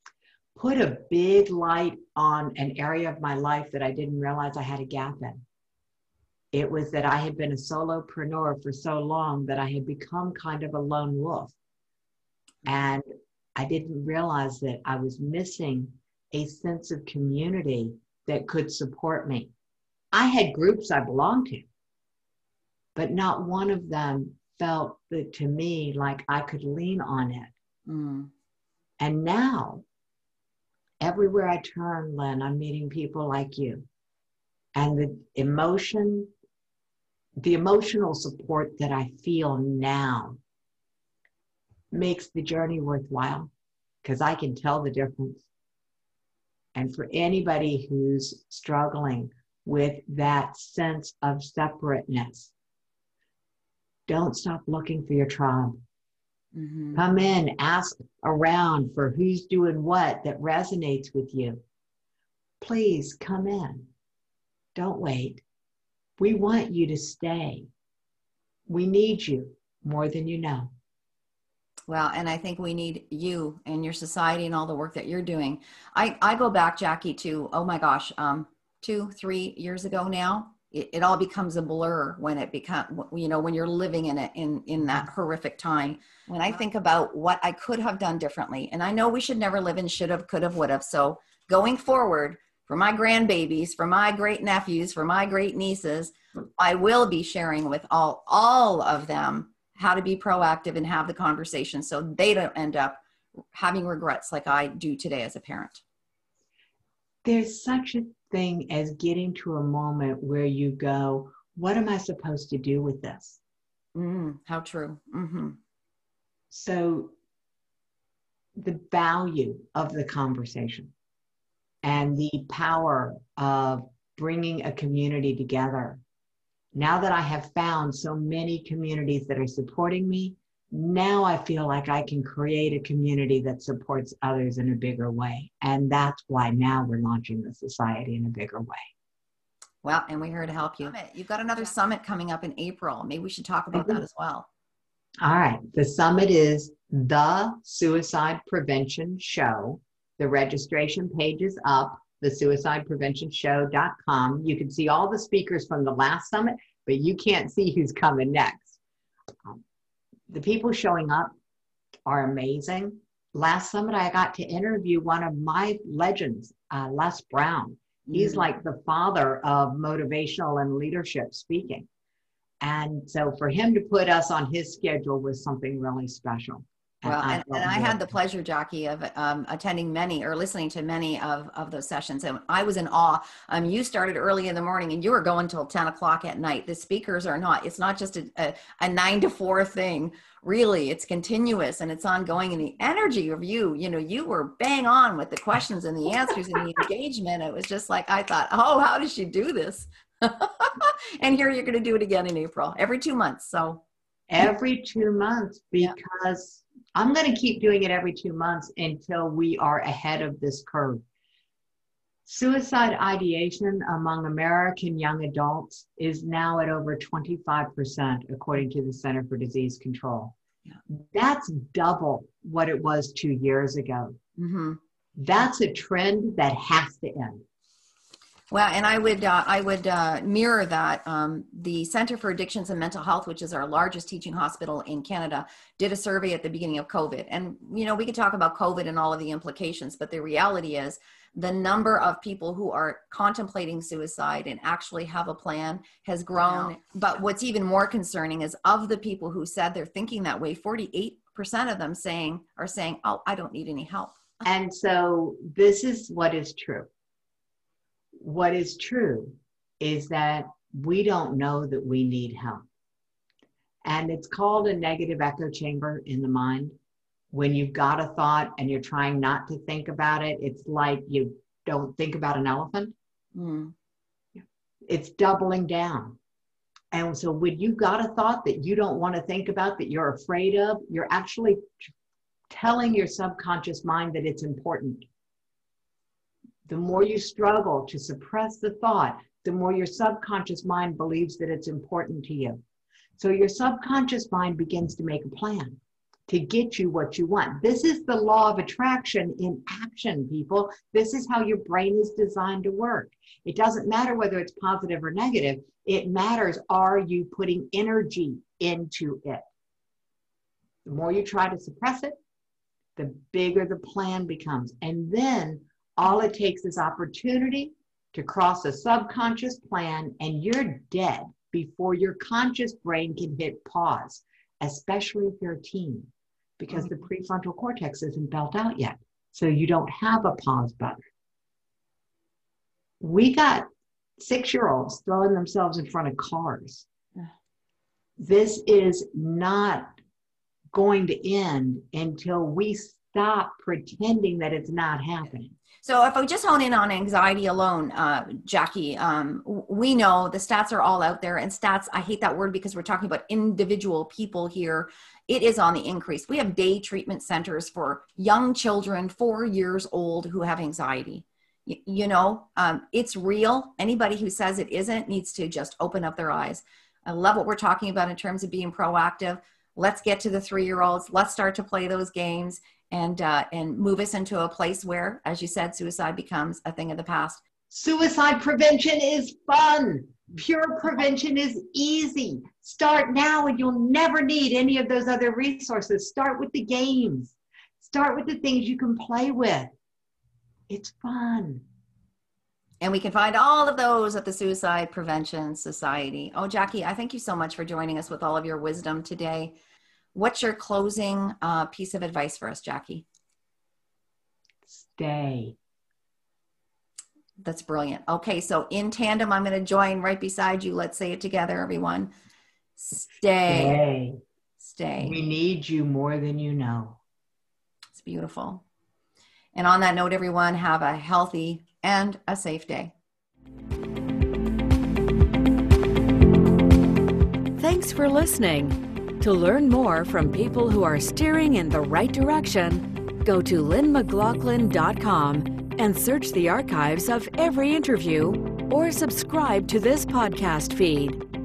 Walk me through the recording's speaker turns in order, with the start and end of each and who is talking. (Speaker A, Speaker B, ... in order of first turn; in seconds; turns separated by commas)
Speaker A: 0.6-5.4, Speaker A: 6.5-11.6, Speaker A: 12.7-13.1, Speaker A: 13.6-19.5, Speaker A: 20.1-21.7, Speaker A: 22.9-27.5, Speaker B: 27.9-28.3, Speaker A: 29.0-29.8, Speaker A: 31.0-33.9, Speaker A: 34.8-36.3, Speaker A: 37.4-40.4, Speaker A: 41.9-43.5, Speaker A: 44.0-45.5, Speaker A: 46.8-52.5, Speaker A: 54.1-55.8, Speaker B: 56.5-57.0, Speaker A: 56.9-61.6, Speaker A: 62.6-63.9, Speaker A: 64.8-65.4, Speaker A: 66.2-67.7, Speaker A: 68.7-70.7, Speaker B: 71.9-103.0, Speaker B: 103.5-105.8, Speaker A: 107.2-113.4, Speaker B: 114.0-115.6, Speaker A: 116.5-117.1, Speaker A: 118.6-120.9, Speaker A: 121.8-126.0, Speaker A: 126.7-138.9, Speaker B: 139.8-144.5, Speaker A: 143.7-144.0, Speaker A: 145.2-158.8, Speaker A: 160.3-161.3, Speaker A: 162.1-171.9, Speaker B: 168.1-168.5, Speaker A: 172.6-178.1, Speaker B: 177.1-203.8, Speaker A: 204.3-211.0, Speaker A: 212.3-220.4, Speaker A: 220.9-224.2, Speaker B: 224.4-224.8, Speaker A: 225.2-227.4, Speaker B: 228.5-254.4, Speaker A: 246.4-246.7, Speaker A: 254.4-256.9, Speaker A: 258.2-262.7, Speaker A: 263.9-266.8, Speaker A: 267.3-272.9, Speaker B: 273.4-273.7, Speaker A: 274.4-276.2, Speaker A: 276.9-281.8, Speaker A: 282.5-285.1, Speaker A: 286.7-292.6, Speaker A: 293.2-309.4, Speaker A: 310.9-312.2, Speaker A: 313.0-331.0, Speaker A: 333.0-333.7, Speaker A: 334.2-336.9, Speaker A: 338.2-339.9, Speaker A: 340.7-345.6, Speaker B: 345.8-377.4, Speaker A: 377.7-389.7, Speaker A: 390.7-391.6, Speaker B: 392.8-399.6, Speaker B: 400.1-403.1, Speaker A: 404.7-405.6, Speaker B: 407.4-412.1, Speaker B: 412.8-413.8, Speaker A: 413.5-414.2, Speaker B: 414.6-415.2, Speaker A: 415.0-417.0, Speaker B: 417.9-418.6, Speaker B: 419.6-422.9, Speaker C: 427.6-441.2